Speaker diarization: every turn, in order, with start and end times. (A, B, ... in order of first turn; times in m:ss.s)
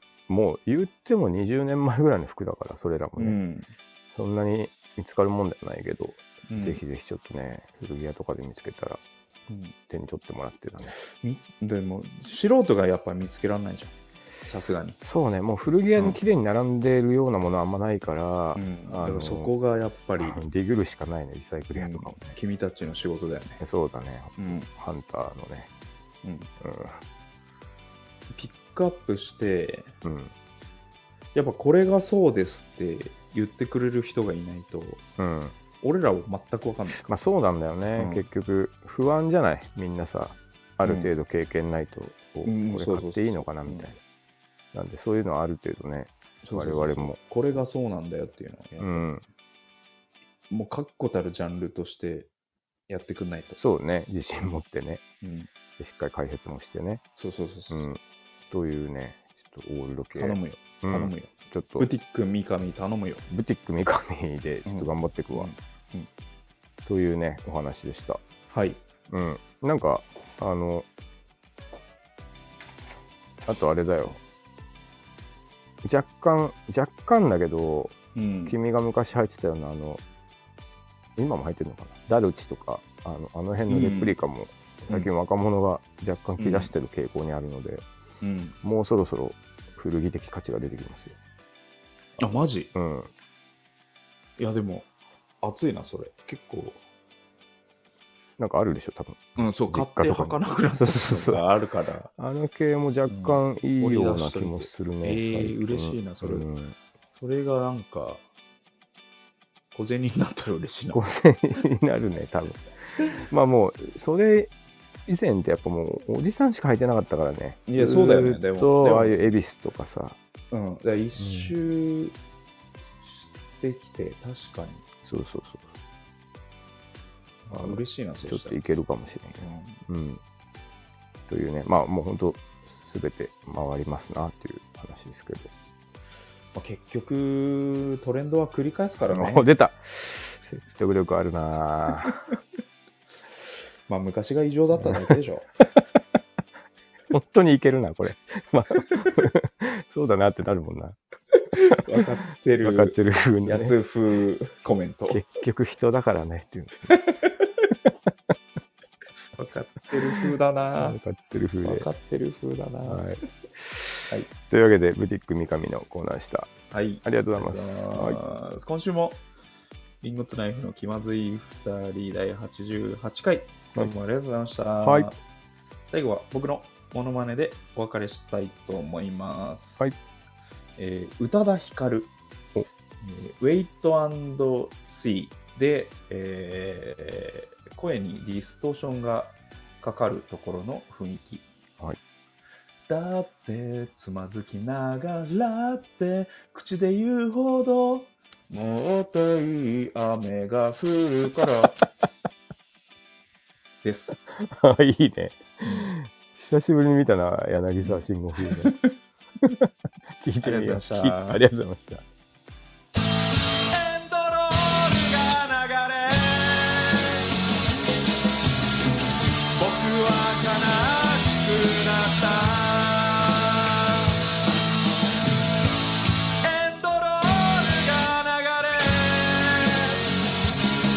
0:00.3-0:03.4 A
0:03.2-0:03.7 B
0:04.1-0:09.0 A
0:06.5-0:06.8 B
0:09.5-0:09.7 B
0:09.9-0:10.9 A
0:10.9-0:13.9 B
0:14.4-0:15.0 B
0:15.0-0:19.5 A
0:18.6-0:20.4 B
0:20.2-0:22.4 A
0:21.7-0:23.6 B
0:23.6-0:25.7 A
0:24.4-0:24.7 B
0:26.2-0:26.5 B
0:26.6-0:27.0 A
0:28.3-0:29.9 B
0:30.0-0:30.3 A
0:31.3-0:35.0 B
0:35.2-0:35.6 A
0:35.8-0:37.2 B
0:37.0-0:44.0 A
0:38.0-0:38.2 B
0:40.8-0:41.1 B
0:42.4-0:43.9 B
0:44.7-0:47.2 A
0:46.4-0:49.0 B
0:48.8-0:49.2 A
0:50.5-0:52.3 B
0:52.9-0:53.6 B
0:53.6-0:55.0 A
0:55.2-0:55.5 B
0:55.8-0:57.0 A
0:57.2-0:57.9 B
0:57.7-0:58.0 A
0:58.5-1:01.9 A
1:00.1-1:03.2 B
1:03.3-1:05.5 A
1:04.6-1:06.1 B
1:06.8-1:08.2 A
1:08.5-1:08.8 B
1:09.1-1:10.9 A
1:13.4-1:14.2 A
1:15.8-1:20.0 A
1:18.1-1:18.6 B
1:21.2-1:27.8 A
1:23.7-1:24.2 B
1:26.4-1:26.7 B
1:28.2-1:28.6 B
1:28.6-1:31.2 A
1:32.2-1:32.7 B
1:32.7-1:33.1 A
1:34.4-1:34.9 B
1:35.4-1:36.8 B
1:38.4-1:41.4 A
1:39.4-1:42.1 B
1:42.2-1:46.8 A
1:43.1-1:46.5 B
1:47.2-1:48.2 B
1:49.7-1:51.0 B
1:50.9-1:52.6 A
1:53.2-1:54.5 A
1:55.0-2:00.2 A
1:57.7-1:59.2 B
2:00.5-2:02.2 B
2:01.2-2:01.5 A
2:03.0-2:04.8 B
2:05.0-2:05.7 A
2:07.5-2:08.6 B
2:07.5-2:10.2 A
2:09.4-2:09.8 B
2:11.3-2:15.5 A
2:16.5-2:19.5 B
2:19.1-2:22.2 A
2:23.9-2:25.5 B
2:24.8-2:25.1 A
2:27.1-2:31.0 A
2:31.5-2:35.2 B
2:32.6-2:33.8 A
2:35.1-2:37.0 A
2:36.9-2:37.4 B
2:39.4-2:41.0 B
2:40.8-2:41.9 A
2:41.6-2:43.0 B
2:42.9-2:46.5 A
2:46.7-2:49.2 B
2:47.0-2:48.2 A
2:50.0-2:55.2 B
2:54.8-2:55.1 A
2:55.8-2:59.8 B
3:00.8-3:02.1 B
3:03.0-3:11.4 B
3:12.9-3:21.8 B
3:23.8-3:24.2 B
3:24.3-3:28.7 A
3:25.6-3:25.9 B
3:27.8-3:28.9 B
3:29.4-3:32.0 A
3:30.4-3:31.4 B
3:33.7-3:37.2 B
3:39.5-3:43.7 B
3:46.4-3:50.0 B